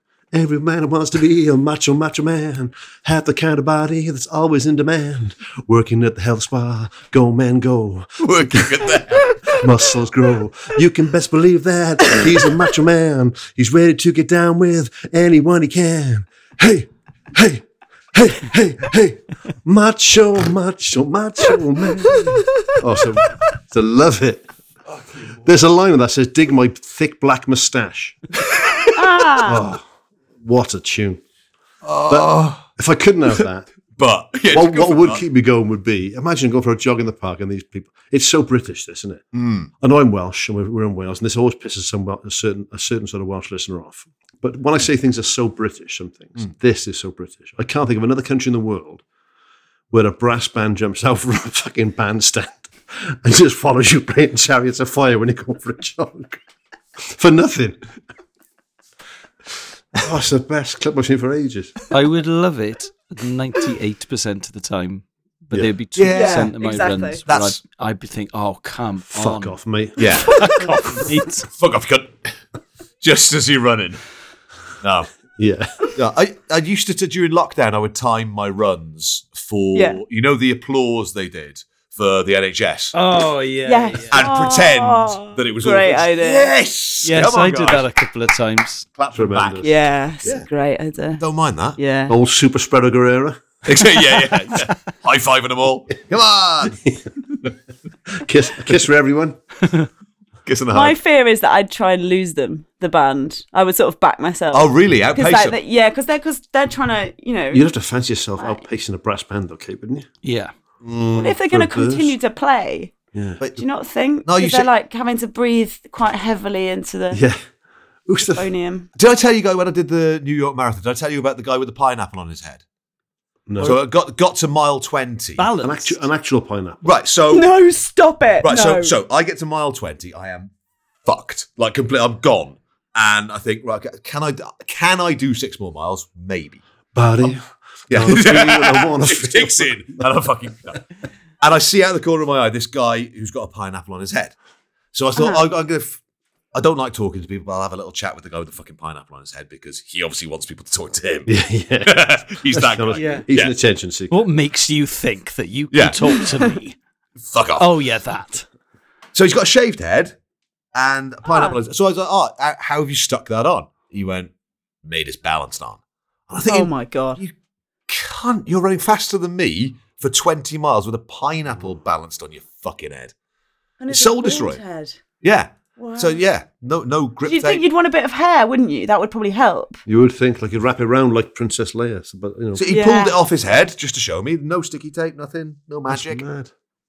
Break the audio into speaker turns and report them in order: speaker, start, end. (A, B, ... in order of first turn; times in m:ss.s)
0:00.3-0:09.0 A
0:08.2-0:09.6 B
0:09.5-0:24.4 A
0:22.0-0:22.7 C
0:25.4-0:28.2 A
0:29.0-0:29.6 C
0:29.4-0:29.8 A
0:30.4-0:31.2 A
0:31.8-0:32.7 B
0:32.1-0:33.7 A
0:34.0-0:35.2 B
0:34.5-0:39.2 A
0:39.3-0:39.7 B
0:39.8-0:49.0 A
0:49.9-0:56.4 A
0:57.0-0:57.8 A
1:00.0-1:01.8 A
1:01.9-1:09.6 D
1:06.0-1:06.5 B
1:06.1-1:07.2 C
1:07.3-1:07.6 B
1:09.1-1:10.1 A
1:10.0-1:10.4 B
1:10.3-1:11.5 D
1:11.5-1:12.3 B
1:13.0-1:14.0 B
1:14.8-1:15.1 B
1:15.4-1:15.7 A
1:16.0-1:23.0 B
1:19.7-1:20.0 C
1:22.9-1:24.2 D
1:23.6-1:26.5 C
1:24.1-1:27.9 B
1:27.0-1:28.9 D
1:29.0-1:29.7 B
1:29.1-1:29.7 A
1:29.6-1:31.2 C
1:31.2-1:31.8 B
1:31.8-1:32.1 C
1:32.1-1:33.4 A
1:33.6-1:36.8 B
1:36.7-1:37.1 A
1:38.2-1:39.4 A
1:40.4-1:41.0 B
1:40.7-1:47.6 C
1:44.5-1:45.6 B
1:47.5-1:50.1 A
1:48.4-1:48.6 C
1:50.2-1:50.5 D
1:50.8-1:51.4 B
1:51.1-1:52.1 A
1:51.2-1:53.0 C
1:53.1-1:53.4 A
1:53.6-1:57.2 C
1:54.2-1:54.7 B
1:57.1-1:57.4 A
1:58.1-1:58.5 A
1:58.3-1:58.9 C
1:59.0-2:02.6 B
2:03.5-2:03.8 A
2:03.6-2:05.4 B
2:05.4-2:06.0 D
2:05.6-2:06.8 A
2:06.8-2:07.5 B
2:07.3-2:08.9 C
2:08.4-2:10.5 B
2:11.0-2:16.6 B
2:16.9-2:20.0 A
2:17.9-2:20.8 B
2:21.4-2:24.3 B
2:24.9-2:26.0 B
2:25.2-2:25.4 C
2:26.5-2:31.3 B
2:31.3-2:34.2 A
2:31.8-2:33.5 B
2:32.9-2:33.3 D
2:34.1-2:36.8 D
2:35.7-2:36.0 B
2:37.2-2:37.7 B
2:37.6-2:38.4 D
2:39.1-2:40.1 B
2:40.7-2:44.3 B
2:41.2-2:41.6 C
2:44.8-2:47.3 B
2:46.4-2:47.2 C
2:47.9-2:53.1 B
2:53.8-2:55.0 C
2:53.9-2:54.6 B
2:55.2-2:57.6 B
2:55.8-2:56.2 C
2:57.2-2:59.8 C
2:59.8-3:02.7 A
3:02.6-3:06.2 B
3:02.7-3:03.1 C
3:05.9-3:06.5 A